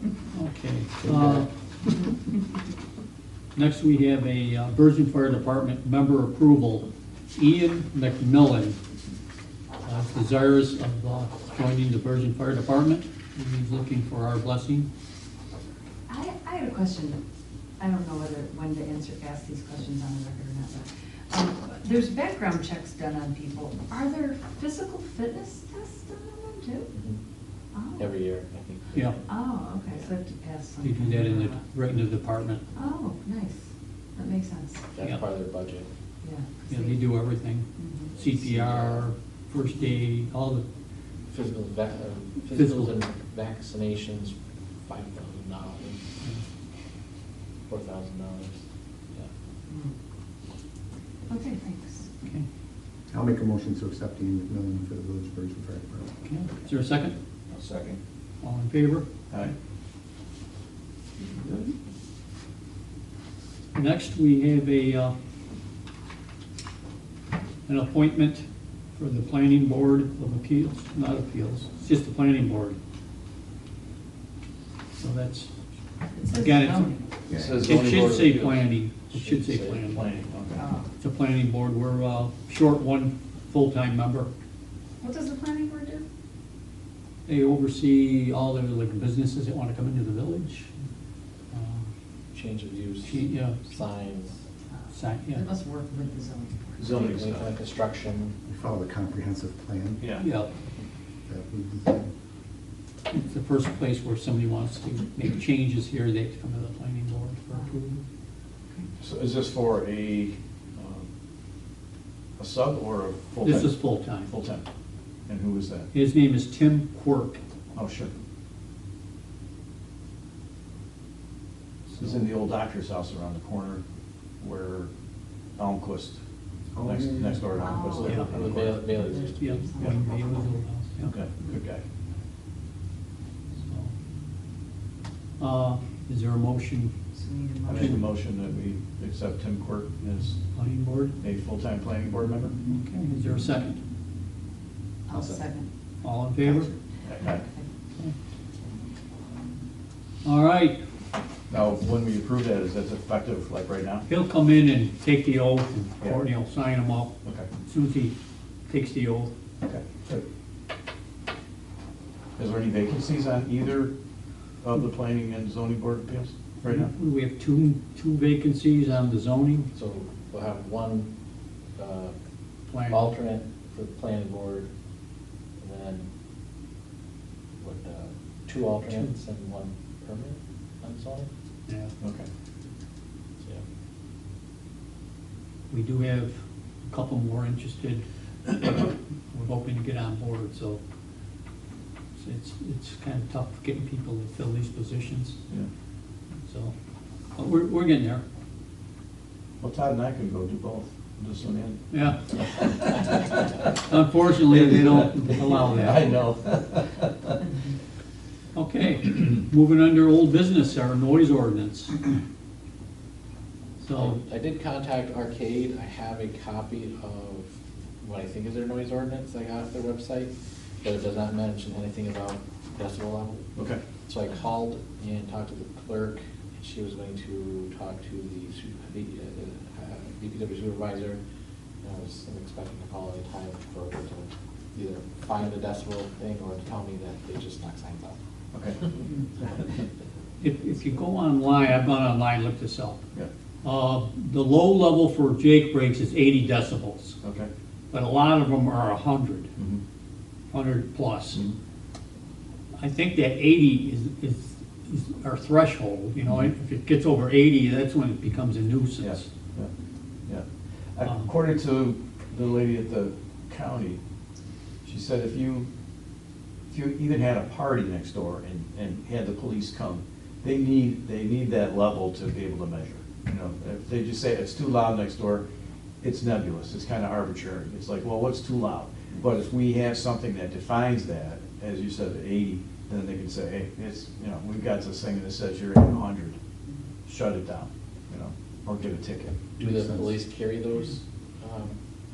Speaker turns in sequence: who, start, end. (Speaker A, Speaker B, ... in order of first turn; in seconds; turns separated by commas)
Speaker A: 0.3-1.5, Speaker B: 1.0-1.4, Speaker A: 3.5-8.8, Speaker A: 9.8-14.9, Speaker C: 16.1-17.2, Speaker C: 17.8-26.9, Speaker D: 26.9-27.2, Speaker C: 27.7-28.1, Speaker D: 28.0-29.1, Speaker C: 29.2-31.6, Speaker A: 30.8-32.6, Speaker C: 32.7-34.9, Speaker D: 34.9-35.9, Speaker C: 36.2-37.0, Speaker A: 36.7-40.6, Speaker C: 37.8-38.1, Speaker D: 38.2-39.1, Speaker D: 41.3-46.1, Speaker A: 42.5-42.9, Speaker D: 47.7-48.6, Speaker C: 49.7-49.9, Speaker C: 51.3-52.1, Speaker B: 53.1-56.1, Speaker A: 56.2-57.1, Speaker E: 57.5-58.0, Speaker A: 58.4-59.0, Speaker A: 63.7-65.1, Speaker A: 67.7-72.8, Speaker A: 75.0-75.5, Speaker C: 76.1-77.0, Speaker A: 76.3-76.9, Speaker B: 77.3-77.7, Speaker E: 77.3-78.7, Speaker A: 77.6-80.1, Speaker D: 79.2-79.8, Speaker E: 79.9-80.6, Speaker C: 80.5-80.9, Speaker A: 81.0-84.3, Speaker C: 85.0-86.0, Speaker A: 87.2-90.7, Speaker A: 91.5-91.8, Speaker D: 92.3-94.4, Speaker A: 93.0-93.7, Speaker A: 94.9-95.4, Speaker C: 95.3-97.0, Speaker E: 96.8-97.6, Speaker D: 96.8-98.4, Speaker B: 98.5-100.0, Speaker E: 100.0-100.2, Speaker A: 100.2-100.5, Speaker B: 101.3-102.1, Speaker A: 103.1-108.0, Speaker E: 109.0-111.0, Speaker E: 112.4-114.6, Speaker A: 113.4-114.3, Speaker E: 115.3-115.9, Speaker A: 115.9-117.4, Speaker E: 117.7-118.1, Speaker A: 121.9-122.2, Speaker E: 122.0-123.8, Speaker E: 124.4-124.9, Speaker E: 125.6-126.2, Speaker B: 126.7-127.8, Speaker E: 126.8-128.9, Speaker C: 127.5-130.5, Speaker A: 128.0-128.5, Speaker D: 128.3-130.3, Speaker A: 129.4-131.1, Speaker E: 131.1-131.8, Speaker A: 133.6-133.9, Speaker A: 135.4-136.9, Speaker C: 137.1-138.0, Speaker E: 137.7-140.4, Speaker A: 137.7-138.0, Speaker A: 140.5-141.1, Speaker E: 141.2-142.6, Speaker A: 142.7-143.8, Speaker C: 145.1-145.7, Speaker B: 145.1-145.4, Speaker A: 146.0-146.7, Speaker B: 146.4-146.8, Speaker E: 147.0-147.5, Speaker A: 150.2-150.8, Speaker E: 151.5-154.1, Speaker A: 154.1-158.1, Speaker A: 158.7-159.3, Speaker E: 159.6-160.2, Speaker E: 162.4-163.9, Speaker E: 164.6-166.9, Speaker A: 166.6-169.7, Speaker D: 169.7-171.1, Speaker D: 171.8-172.1, Speaker A: 172.7-173.1, Speaker D: 172.9-174.7, Speaker D: 175.6-176.1, Speaker D: 177.6-181.3, Speaker A: 181.7-181.9, Speaker E: 182.0-182.3, Speaker A: 185.7-190.8, Speaker A: 192.2-195.4, Speaker A: 196.4-196.7, Speaker A: 197.3-198.2, Speaker E: 199.6-203.7, Speaker A: 201.9-203.1, Speaker A: 203.7-206.2, Speaker E: 204.4-207.3, Speaker A: 208.5-212.0, Speaker A: 213.8-214.2, Speaker D: 213.9-231.2, Speaker E: 223.5-223.9, Speaker D: 231.8-238.2, Speaker E: 238.5-238.8, Speaker A: 240.4-243.0, Speaker A: 243.6-247.2, Speaker E: 247.2-247.5, Speaker A: 247.9-249.5, Speaker A: 250.5-251.4, Speaker A: 252.7-259.3, Speaker E: 259.0-259.7, Speaker E: 260.2-264.0, Speaker A: 261.0-261.3, Speaker E: 264.8-265.7, Speaker E: 266.7-275.4, Speaker E: 276.0-286.4, Speaker E: 287.1-289.5, Speaker B: 289.6-290.1, Speaker D: 289.6-291.8